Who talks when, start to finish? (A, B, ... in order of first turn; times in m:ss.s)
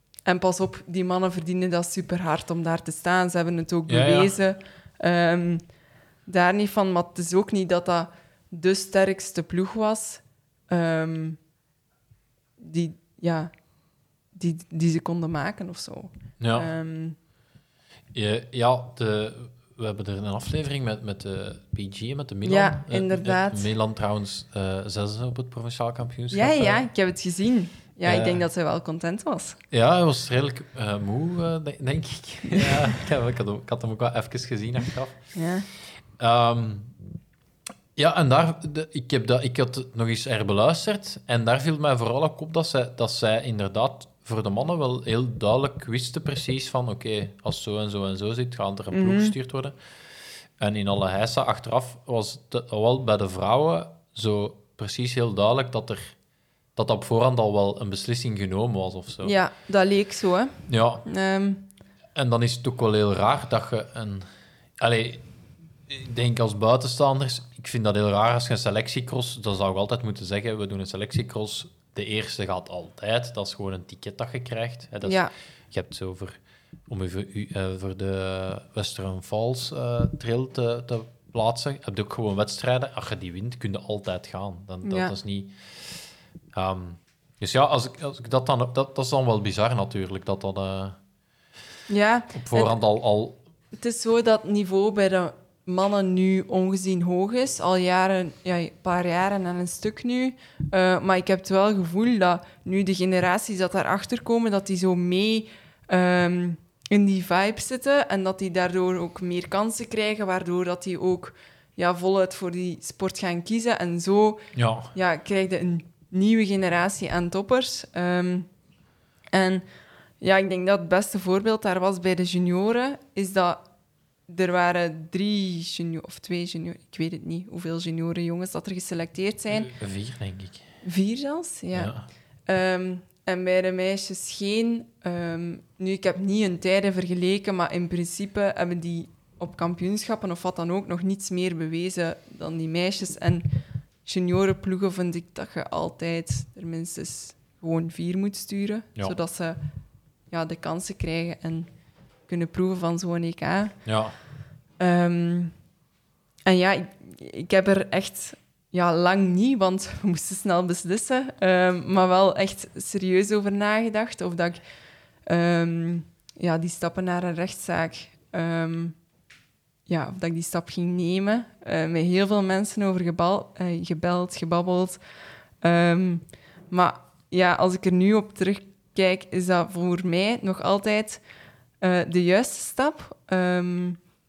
0:00.2-0:05.6 A
0:03.9-0:04.4 B
0:06.2-0:11.4 A
0:12.6-0:13.5 A
0:14.3-0:17.2 A
0:16.4-0:16.7 B
0:18.1-0:26.8 B
0:22.4-0:23.7 A
0:26.3-0:29.6 A
0:28.0-0:28.4 B
0:29.7-0:35.4 B
0:32.5-0:32.8 A
0:35.4-0:35.6 A
0:36.2-0:36.9 B
0:38.0-0:49.8 B
0:48.9-0:49.3 A
0:50.6-0:56.1 B
0:56.8-0:59.3 B
0:59.2-1:01.6 A
1:00.7-1:01.0 B
1:02.2-1:05.2 B
1:05.9-1:31.0 B
1:15.0-1:15.3 A
1:24.8-1:25.1 A
1:31.9-1:32.8 A
1:32.3-1:33.4 B
1:33.8-1:54.4 A
1:54.5-1:54.9 B
1:54.9-1:58.5 A
1:59.3-1:59.6 A
2:00.2-2:03.6 A
2:04.3-2:09.7 A
2:09.5-2:10.7 B
2:10.8-2:11.9 A
2:11.7-2:12.0 B
2:12.5-2:23.5 A
2:24.0-2:29.6 A
2:30.3-2:31.7 A
2:32.3-2:33.8 A
2:33.8-2:34.1 B
2:34.8-2:35.5 A
2:36.4-2:44.6 A
2:45.2-2:48.9 A
2:49.9-2:55.0 A
2:55.6-3:01.2 A
3:01.8-3:04.0 A